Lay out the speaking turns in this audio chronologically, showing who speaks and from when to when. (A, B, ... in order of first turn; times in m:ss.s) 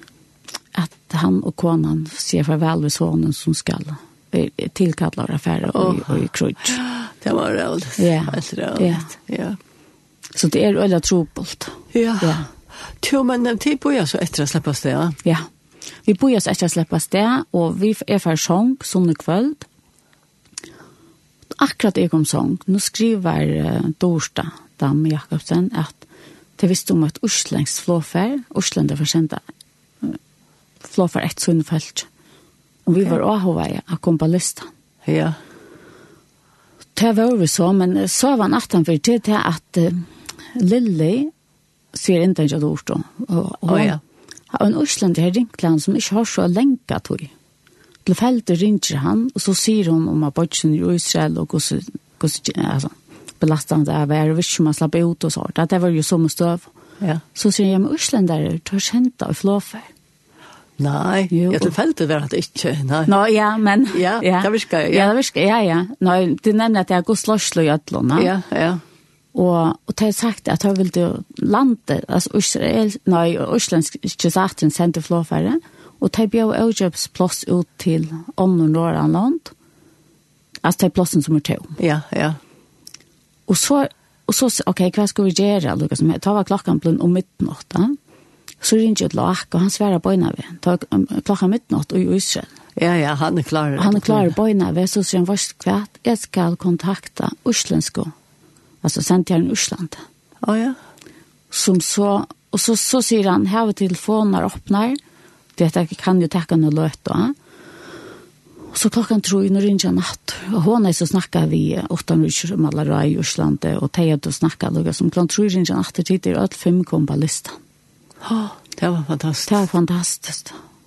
0:00.8-0:06.8 A
0:05.7-0:09.6 B
0:08.0-0:09.1 A
0:10.3-0:12.5 A
0:11.9-0:12.4 B
0:13.0-0:15.2 B
0:16.0-0:19.7 A
0:21.6-0:26.0 A
0:26.6-0:29.4 A
0:30.8-0:32.1 A
0:32.9-0:34.7 A
0:35.0-0:35.4 B
0:37.0-0:41.3 A
0:41.9-0:44.0 A
0:43.7-0:44.0 B
0:44.5-0:47.3 A
0:48.1-0:56.7 A
0:57.4-0:59.9 A
1:00.8-1:03.1 B
1:01.3-1:01.7 A
1:03.1-1:08.3 A
1:03.9-1:05.1 B
1:08.2-1:08.8 B
1:09.3-1:19.5 A
1:20.6-1:21.8 A
1:21.8-1:22.4 B
1:23.5-1:28.0 A
1:28.6-1:32.5 A
1:32.8-1:34.3 B
1:33.8-1:38.1 A
1:38.8-1:40.0 A
1:40.4-1:40.8 B
1:41.5-1:45.0 A
1:45.6-1:47.4 A
1:48.7-1:57.6 A
1:58.2-1:59.6 B
1:59.5-2:00.6 A